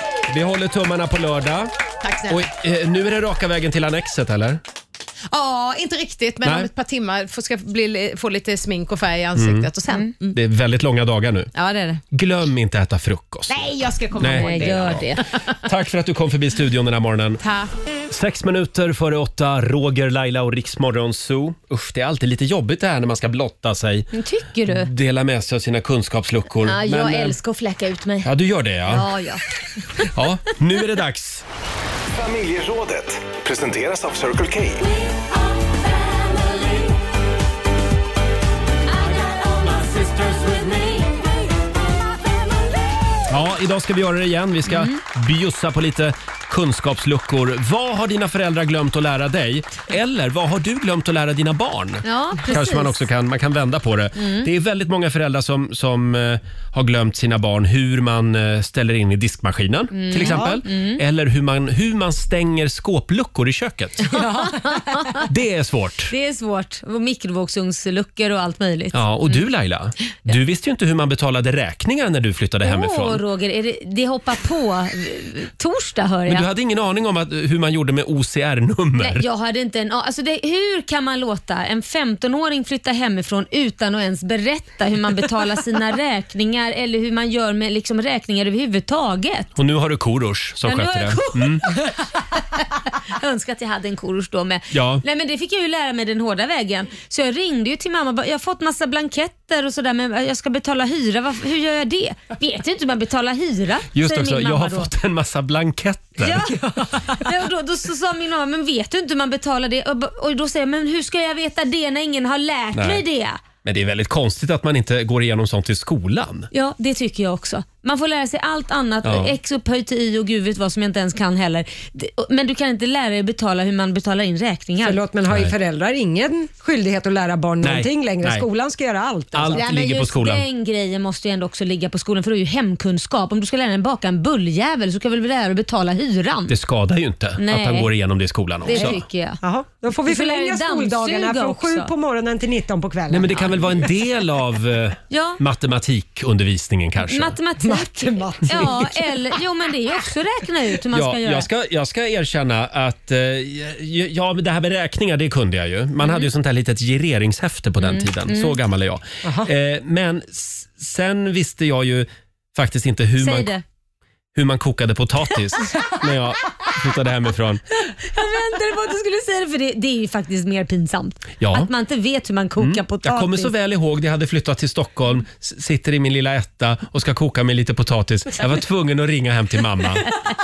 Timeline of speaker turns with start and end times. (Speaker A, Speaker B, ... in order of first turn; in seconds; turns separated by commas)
Speaker A: 0.3-1.7, Speaker B: 2.0-2.5, Speaker A: 2.3-4.6, Speaker B: 5.3-10.4, Speaker A: 6.4-6.7, Speaker A: 9.4-9.7, Speaker A: 10.3-11.5, Speaker B: 11.5-12.0, Speaker A: 12.1-15.1, Speaker B: 13.5-15.6, Speaker C: 14.2-15.2, Speaker A: 15.6-17.4, Speaker B: 17.4-17.7, Speaker A: 18.1-27.4, Speaker C: 24.1-24.9, Speaker C: 26.6-28.3, Speaker A: 28.2-29.1, Speaker C: 28.9-29.4, Speaker A: 30.1-31.4, Speaker D: 32.1-34.9, Speaker A: 43.3-64.1, Speaker C: 44.7-45.0, Speaker C: 52.0-53.0, Speaker C: 54.2-54.5, Speaker C: 59.9-61.0, Speaker C: 64.1-65.3, Speaker A: 65.2-66.1, Speaker C: 66.1-69.4, Speaker A: 68.9-73.2, Speaker C: 72.6-76.5, Speaker A: 76.3-79.3, Speaker C: 79.0-89.5, Speaker A: 89.6-91.7, Speaker C: 90.6-104.9, Speaker A: 94.7-95.0, Speaker A: 103.9-106.5, Speaker C: 106.2-113.4, Speaker A: 112.7-113.0, Speaker A: 113.6-116.5, Speaker C: 116.5-125.0, Speaker A: 119.0-119.4, Speaker E: 124.8-129.7, Speaker A: 125.3-125.5, Speaker A: 127.6-128.5, Speaker A: 129.3-130.4, Speaker C: 129.5-136.6, Speaker A: 136.5-139.0, Speaker C: 137.4-137.9, Speaker C: 138.6-139.4, Speaker E: 138.7-143.5, Speaker C: 140.1-141.9, Speaker A: 143.1-147.4, Speaker C: 145.1-145.4, Speaker C: 147.1-151.5, Speaker E: 147.6-149.1, Speaker A: 150.9-163.5, Speaker C: 156.0-156.3, Speaker C: 157.8-158.6, Speaker C: 163.2-163.6, Speaker A: 164.3-167.6, Speaker C: 167.9-173.5, Speaker A: 171.4-171.7, Speaker A: 172.6-180.1